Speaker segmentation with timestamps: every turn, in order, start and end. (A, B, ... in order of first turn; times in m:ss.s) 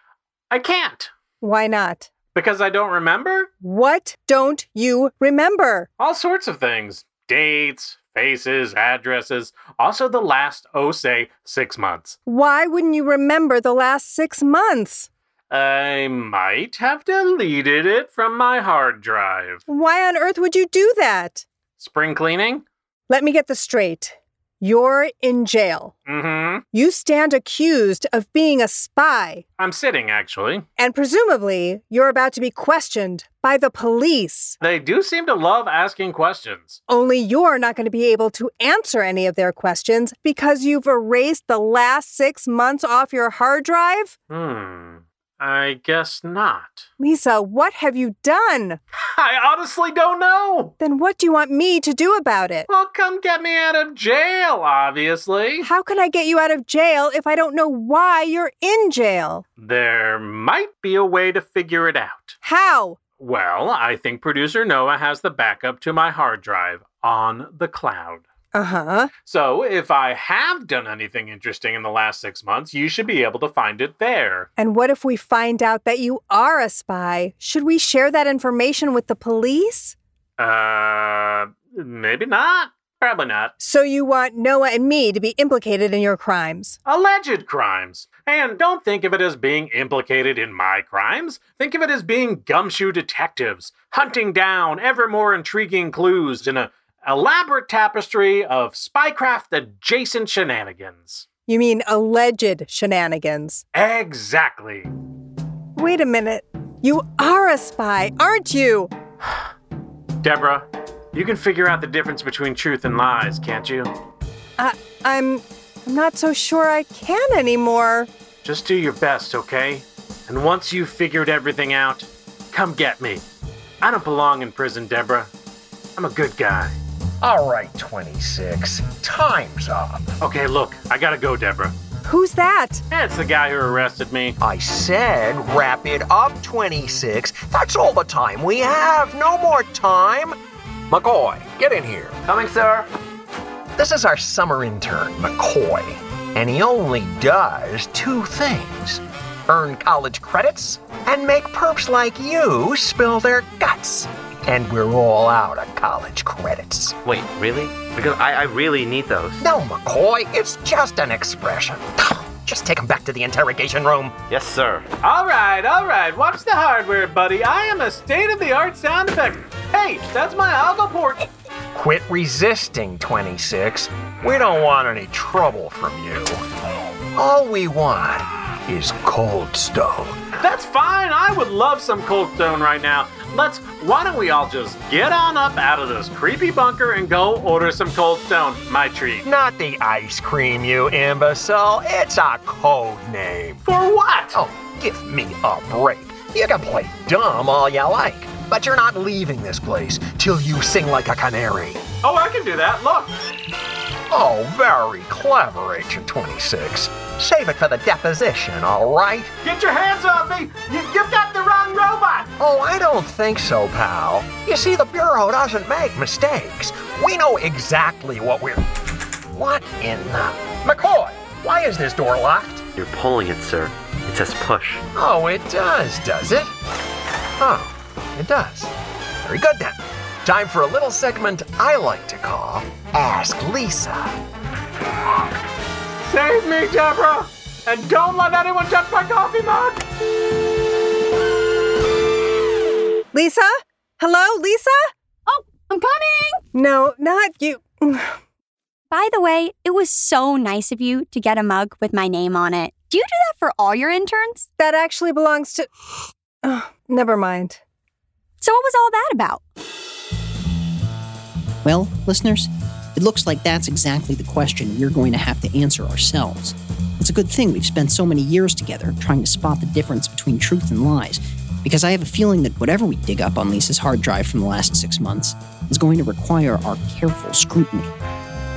0:00.5-0:01.1 A
0:01.4-0:02.1 B
0:02.3-0:03.5 A
0:03.6-0:05.9 B
0:06.0-0:12.2 A
0:12.3-0:15.1 B
0:15.5-0:19.6 A
0:19.7-0:21.4 B
0:21.8-0:22.6 A
0:23.1-0:25.9 B
0:26.1-0:26.6 A
0:26.7-0:29.4 B
0:29.6-0:30.6 A
0:30.8-0:34.6 B
0:34.6-0:36.8 A
0:36.9-0:44.2 B
0:44.3-0:46.8 A
0:47.0-0:48.8 B
0:49.0-0:50.7 A
0:50.8-0:52.7 B
0:52.7-0:55.7 A
0:55.6-0:59.4 B
0:59.6-1:02.4 A
1:02.4-1:03.0 B
1:03.2-1:08.2 A
1:08.5-1:09.1 B
1:09.3-1:14.5 A
1:14.6-1:20.0 B
1:20.4-1:23.5 A
1:23.6-1:26.8 B
1:26.8-1:41.2 A
1:41.5-1:43.6 B
1:43.7-1:44.9 A
1:45.8-1:48.9 B
1:50.2-1:53.9 A
1:54.6-1:58.1 B
1:58.4-2:03.2 A
2:03.8-2:05.3 A
2:06.0-2:06.8 A
2:07.2-2:10.1 C
2:10.2-2:11.7 A
2:12.0-2:12.8 B
2:12.9-2:14.4 A
2:14.4-2:20.4 C
2:20.9-2:22.2 C
2:22.3-2:22.9 D
2:23.8-2:37.0 C
2:37.0-2:39.4 D
2:39.4-2:44.2 C
2:44.3-2:44.9 D
2:45.0-2:51.3 A
2:51.7-2:56.4 C
2:57.2-3:00.2 C
3:00.4-3:09.3 A
3:09.2-3:13.6 C
3:13.6-3:14.4 A
3:14.3-3:21.8 C
3:22.0-3:23.1 A
3:24.1-3:29.3 C
3:29.4-3:32.3 A
3:32.4-3:38.6 C
3:39.3-3:42.6 C
3:42.8-3:44.8 D
3:45.0-3:46.5 C
3:47.4-3:48.7 C
3:49.2-3:54.1 C
3:56.0-3:59.8 A
4:03.1-4:04.8 B
4:05.3-4:06.4 E
4:06.5-4:08.1 B
4:08.9-4:14.5 E
4:14.6-4:15.7 B
4:16.4-4:17.6 B
4:18.4-4:19.4 E
4:21.6-4:37.9 F